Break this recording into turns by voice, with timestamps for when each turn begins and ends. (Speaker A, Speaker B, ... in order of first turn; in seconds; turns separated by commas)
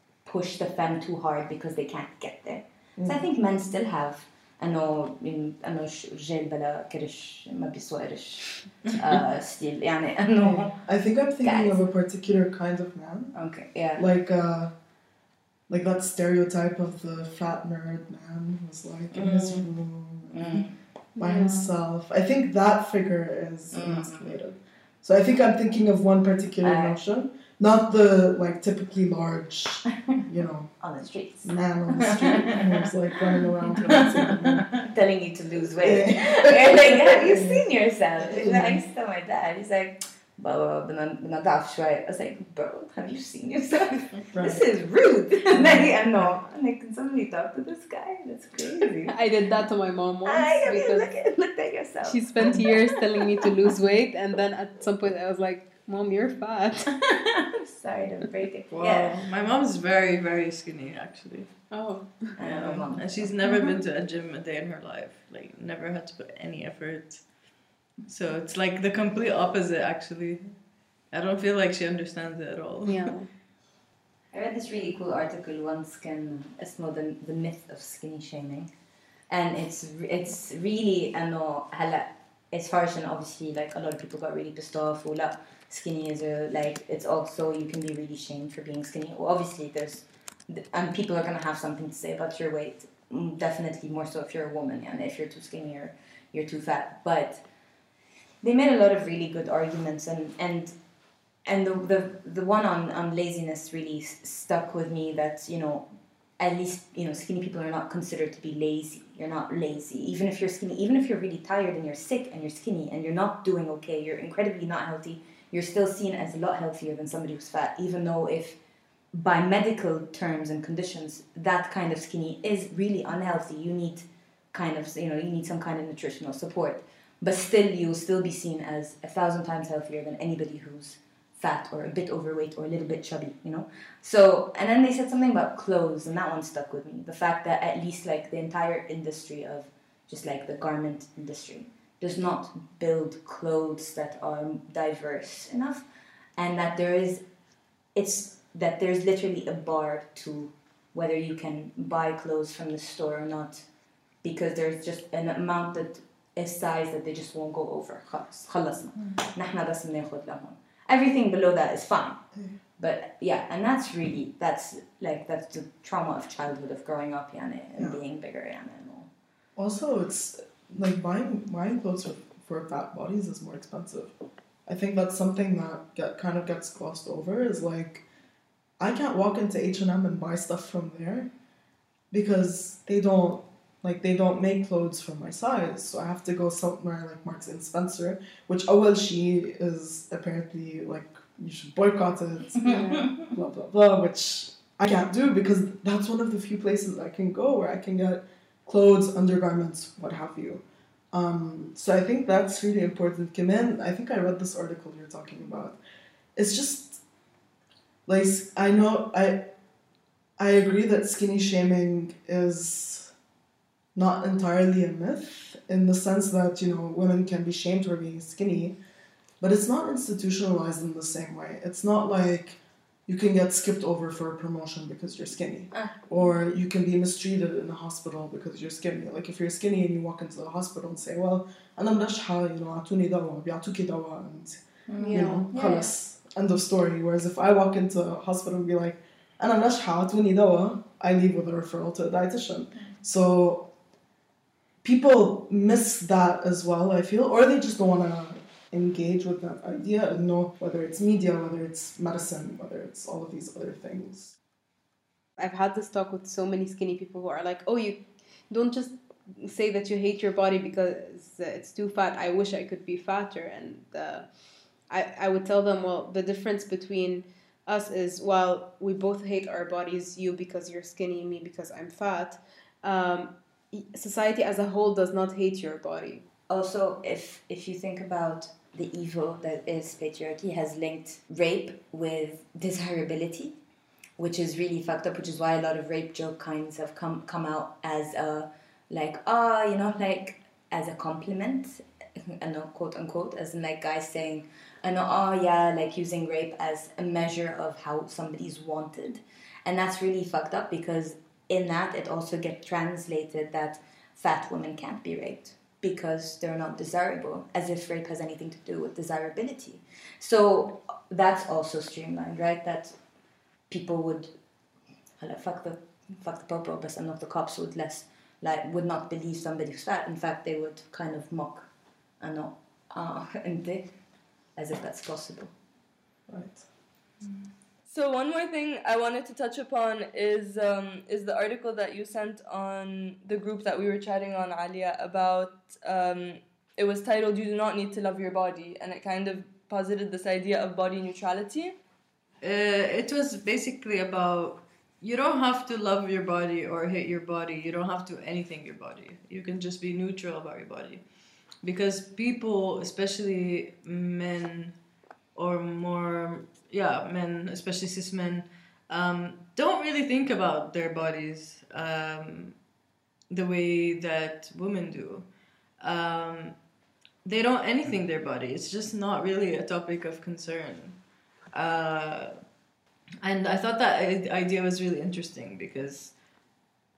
Speaker A: 0.2-10.8, Speaker B: 3.0-3.2, Speaker B: 10.4-13.3, Speaker A: 11.4-11.8, Speaker A: 13.3-14.1, Speaker B: 13.9-14.7, Speaker B: 15.7-30.7, Speaker A: 19.1-19.6, Speaker A: 20.3-20.7, Speaker C: 21.2-21.7, Speaker A: 23.7-24.4, Speaker A: 26.6-27.0, Speaker A: 30.8-32.8, Speaker B: 31.4-34.7, Speaker A: 33.8-49.1, Speaker B: 35.8-37.6, Speaker B: 38.2-38.8, Speaker B: 44.3-44.6, Speaker B: 45.5-45.9, Speaker C: 49.1-51.1, Speaker A: 50.2-53.5, Speaker C: 52.0-56.9, Speaker A: 57.1-59.2, Speaker D: 58.8-61.5, Speaker C: 61.7-62.1, Speaker A: 62.4-63.3, Speaker D: 62.4-67.3, Speaker D: 68.0-70.5, Speaker D: 71.1-73.1, Speaker C: 72.8-73.3, Speaker A: 74.3-78.7, Speaker A: 79.3-97.4, Speaker A: 98.4-100.7, Speaker A: 101.5-105.8, Speaker A: 106.4-118.6, Speaker A: 119.1-145.8, Speaker A: 146.4-147.2, Speaker A: 147.9-153.6, Speaker A: 154.2-162.2, Speaker A: 162.8-169.1, Speaker B: 169.6-174.1, Speaker B: 174.7-178.0, Speaker B: 178.8-181.3, Speaker B: 182.1-205.8, Speaker A: 192.6-193.3, Speaker C: 192.6-193.1, Speaker B: 206.3-207.0, Speaker B: 208.1-209.5, Speaker B: 210.4-213.1, Speaker B: 213.9-218.8, Speaker B: 219.4-243.7, Speaker A: 225.7-226.0, Speaker A: 234.9-235.4, Speaker C: 235.0-235.9, Speaker B: 244.8-254.3, Speaker C: 255.4-264.2, Speaker C: 264.9-276.2, Speaker A: 276.5-283.6, Speaker A: 284.2-312.9, Speaker A: 313.7-314.3, Speaker A: 315.2-323.9, Speaker A: 324.6-325.5, Speaker B: 326.3-326.6, Speaker E: 327.9-341.7, Speaker D: 342.4-351.0, Speaker D: 351.6-354.8, Speaker D: 355.3-362.6, Speaker D: 363.3-365.3, Speaker D: 365.8-366.6, Speaker D: 367.2-371.0, Speaker D: 371.5-372.3, Speaker D: 373.2-376.1